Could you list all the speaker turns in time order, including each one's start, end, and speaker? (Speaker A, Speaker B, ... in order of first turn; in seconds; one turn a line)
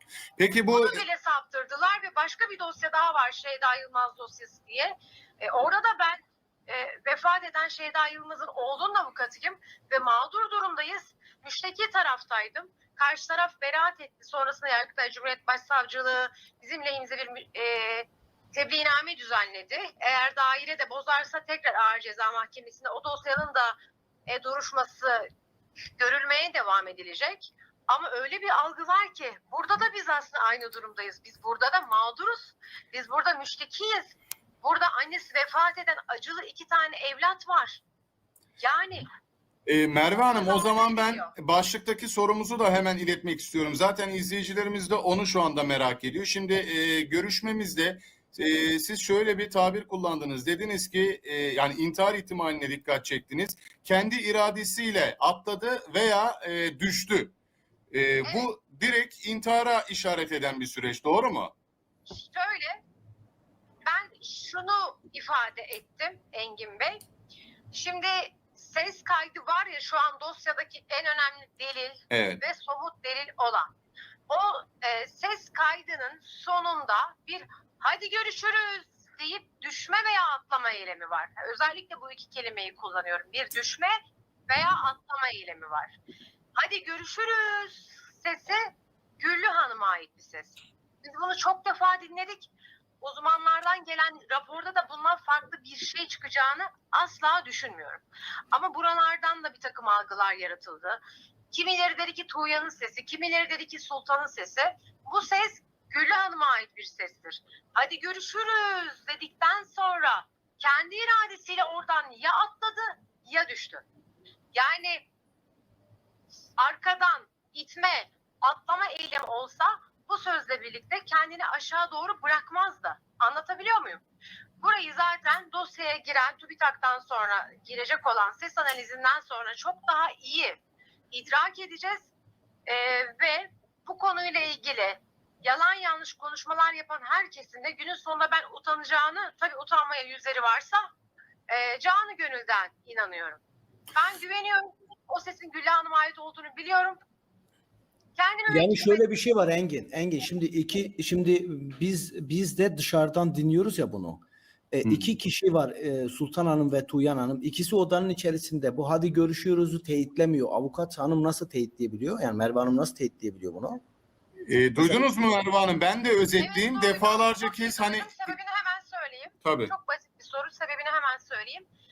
Speaker A: 0.4-1.0
Speaker B: 0.5-23.8
Speaker B: 24.3-25.3
Speaker B: 26.0-37.8
Speaker B: 38.6-39.0
Speaker A: 39.7-57.3
Speaker B: 40.3-41.3
Speaker A: 57.9-61.5
Speaker B: 62.1-62.8
Speaker B: 63.9-67.0
Speaker B: 67.7-73.7
Speaker A: 72.1-72.4
Speaker B: 74.3-84.0
Speaker B: 84.5-86.0
Speaker B: 86.6-113.8
Speaker B: 114.5-115.1
Speaker B: 116.6-124.0
Speaker B: 124.6-132.1
Speaker B: 132.7-140.9
Speaker B: 141.5-143.4
Speaker B: 143.9-147.0
Speaker B: 148.2-149.0
Speaker C: 148.5-163.8
Speaker A: 154.8-155.1
Speaker A: 164.5-168.3
Speaker C: 164.8-165.1
Speaker B: 166.4-171.7
Speaker A: 169.4-169.7